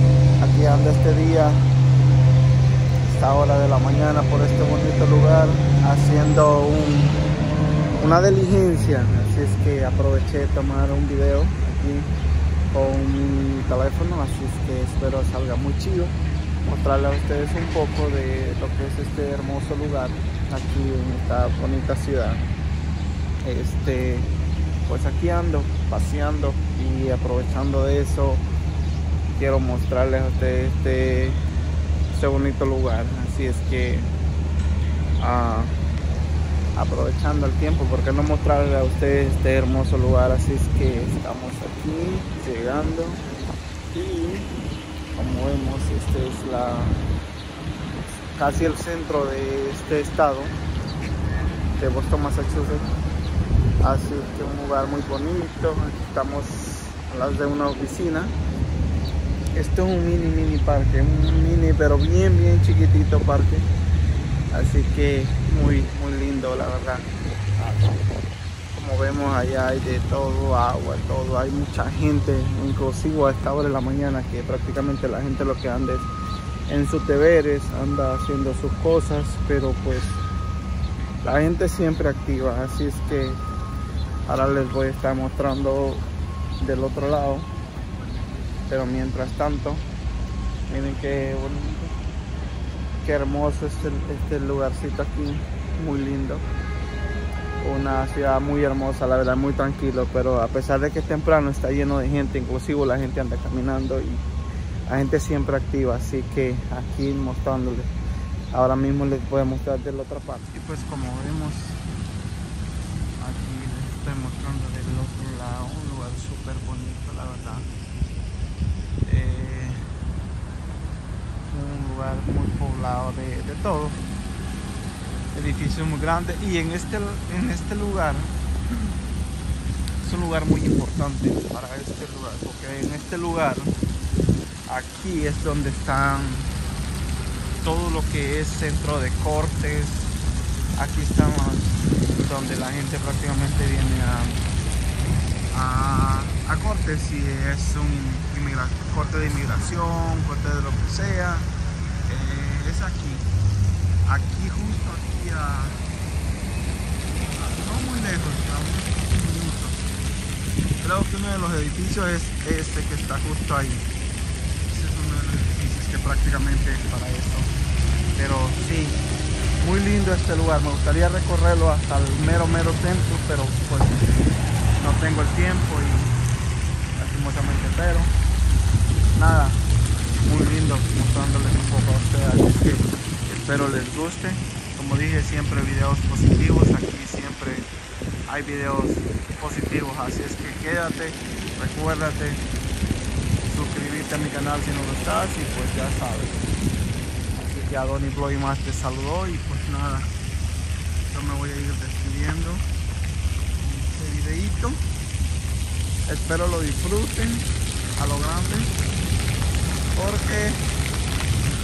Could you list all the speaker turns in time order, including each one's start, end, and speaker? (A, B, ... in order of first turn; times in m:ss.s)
0:00.4-0:01.6 A
0:03.1-0:07.2 A
0:08.0-0:12.1 A
0:12.7-0:22.4 A
0:23.4-0:24.3 A
0:24.9-0:28.4 A
0:29.3-0:31.4 A
0:32.1-0:34.1 A
0:35.2-0:35.7 A
0:36.8-0:43.2 A
0:43.9-0:44.5 A
0:45.2-0:47.0 A
0:48.3-0:50.5 A
0:51.8-0:52.9 A
0:53.8-0:58.3 A
0:59.6-1:03.6 A
1:04.5-1:08.0 A
1:08.7-1:16.1 A
1:16.7-1:20.2 A
1:21.2-1:23.4 A
1:24.3-1:26.0 A
1:26.6-1:27.5 A
1:28.7-1:29.8 A
1:30.7-1:31.9 A
1:33.0-1:36.4 A
1:37.6-1:44.2 A
1:44.9-1:47.9 A
1:48.5-1:51.8 A
1:53.2-1:57.7 A
1:59.1-1:59.8 A
2:01.5-2:04.0 A
2:05.3-2:09.0 A
2:10.0-2:13.7 A
2:14.7-2:16.5 A
2:17.6-2:20.1 A
2:20.8-2:24.4 A
2:25.5-2:31.5 A
2:32.1-2:33.3 A
2:34.1-2:35.8 A
2:37.4-2:39.8 A
2:40.8-2:43.9 A
2:44.7-2:47.5 A
2:48.1-2:49.0 A
2:49.6-2:54.1 A
2:54.8-2:56.2 A
2:57.0-2:58.1 A
2:59.2-2:59.6 A
3:00.2-3:07.7 A
3:08.3-3:12.4 A
3:13.5-3:16.4 A
3:17.4-3:20.1 A
3:21.1-3:22.6 A
3:23.6-3:24.8 A
3:26.1-3:27.4 A
3:28.0-3:28.7 A
3:30.0-3:30.6 A